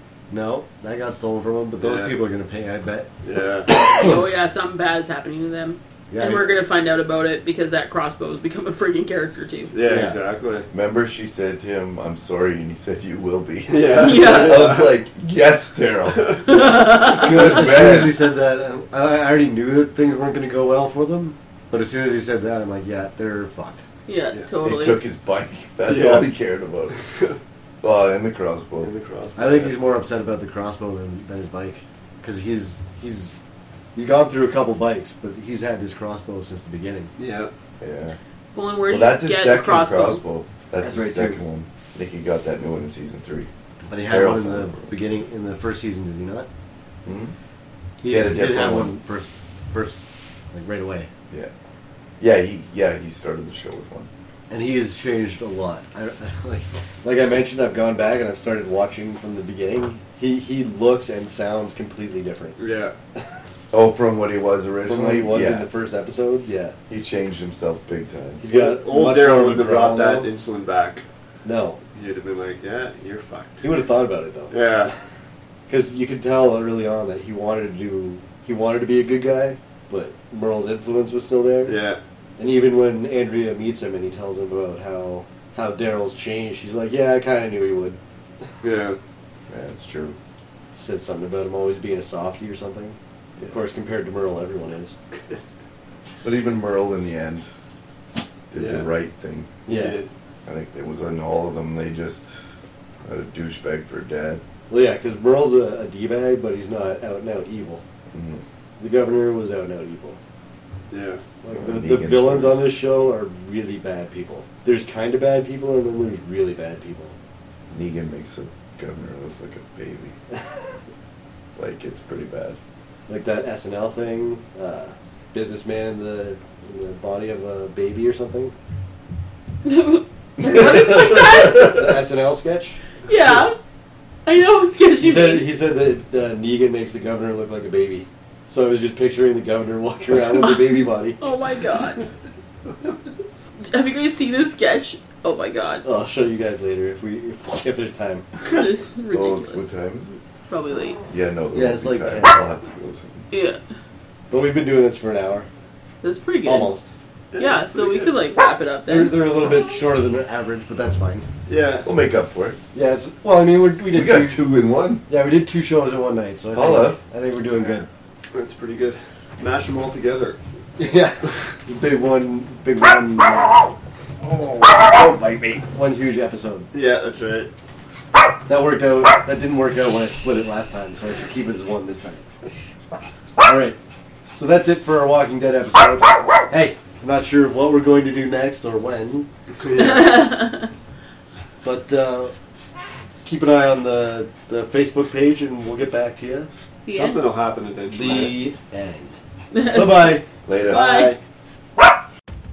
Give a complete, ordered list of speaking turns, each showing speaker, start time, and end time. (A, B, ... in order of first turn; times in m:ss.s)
0:00.3-0:03.1 A
0:01.8-0:02.2 B
0:03.2-0:03.7 B
0:03.7-0:09.7 C
0:06.1-0:06.5 A
0:09.7-0:10.7 B
0:09.8-0:10.2 A
0:10.7-0:18.2 D
0:13.7-0:14.9 B
0:14.0-0:14.7 C
0:16.5-0:17.7 C
0:17.0-0:23.8 A
0:24.1-0:25.0 C
0:24.6-0:26.9 D
0:25.8-0:26.3 B
0:27.8-0:28.9 D
0:28.8-0:29.8 B
0:29.4-0:33.4 A
0:33.9-0:37.1 A
0:37.2-0:37.5 B
0:37.8-0:38.2 D
0:38.5-0:40.2 C
0:38.9-0:43.5 D
0:40.8-0:41.4 A
0:43.9-0:46.5 A
0:44.0-0:44.9 D
0:47.0-0:47.3 D
0:48.0-0:51.1 A
0:48.0-0:48.9 D
0:52.2-0:54.1 D
0:54.5-1:02.6 A
1:02.6-1:02.9 B
1:03.7-1:05.7 D
1:04.8-1:06.8 A
1:06.9-1:08.4 D
1:08.4-1:10.3 A
1:08.5-1:11.0 B
1:11.4-1:11.8 A
1:11.9-1:13.7 B
1:13.6-1:14.9 A
1:14.5-1:14.9 B
1:15.7-1:21.8 A
1:21.6-1:22.0 B
1:22.4-1:28.0 A
1:28.6-1:29.0 B
1:29.5-1:30.2 D
1:30.7-1:33.0 A
1:33.5-1:34.9 A
1:36.2-1:37.5 D
1:38.5-1:39.6 D
1:38.6-1:38.9 B
1:39.6-1:40.0 A
1:39.7-1:40.1 B
1:40.4-1:42.4 D
1:43.0-1:44.4 D
1:44.7-1:47.8 A
1:48.1-1:48.4 D
1:48.8-1:50.2 A
1:50.9-1:51.2 B
1:51.4-1:57.2 A
1:51.5-1:52.8 D
1:57.7-2:00.1 D
2:01.6-2:02.6 D
2:03.1-2:08.5 A
2:09.6-2:11.9 C
2:10.4-2:11.8 D
2:11.5-2:12.8 A
2:13.1-2:13.5 C
2:14.2-2:15.5 C
2:15.0-2:21.2 A
2:20.4-2:22.0 C
2:23.7-2:25.8 C
2:25.8-2:28.2 A
2:28.4-2:29.7 C
2:29.1-2:30.2 D
2:30.5-2:31.0 C
2:31.1-2:33.2 D
2:31.5-2:32.4 A
2:33.3-2:33.6 C
2:34.3-2:35.5 A
2:36.0-2:36.7 C
2:36.4-2:36.9 A
2:37.3-2:38.2 B
2:37.4-2:39.3 C
2:38.9-2:41.2 A
2:41.5-2:41.9 B
2:41.8-2:42.6 D
2:42.7-2:44.4 A
2:43.9-2:45.0 D
2:45.1-2:47.9 A
2:46.5-2:47.0 D
2:48.3-2:50.4 B
2:50.8-2:53.7 A
2:54.2-2:55.6 D
2:55.7-2:56.7 A
2:56.7-2:57.5 B
2:58.4-3:02.2 A
3:03.4-3:03.8 A
3:04.3-3:09.3 A
3:09.6-3:10.4 B
3:09.8-3:10.6 C
3:11.6-3:12.3 A
3:13.2-3:16.5 A
3:16.8-3:17.3 C
3:16.9-3:18.5 B
3:17.9-3:20.2 A
3:19.5-3:21.2 C
3:20.4-3:20.8 D
3:20.6-3:21.2 B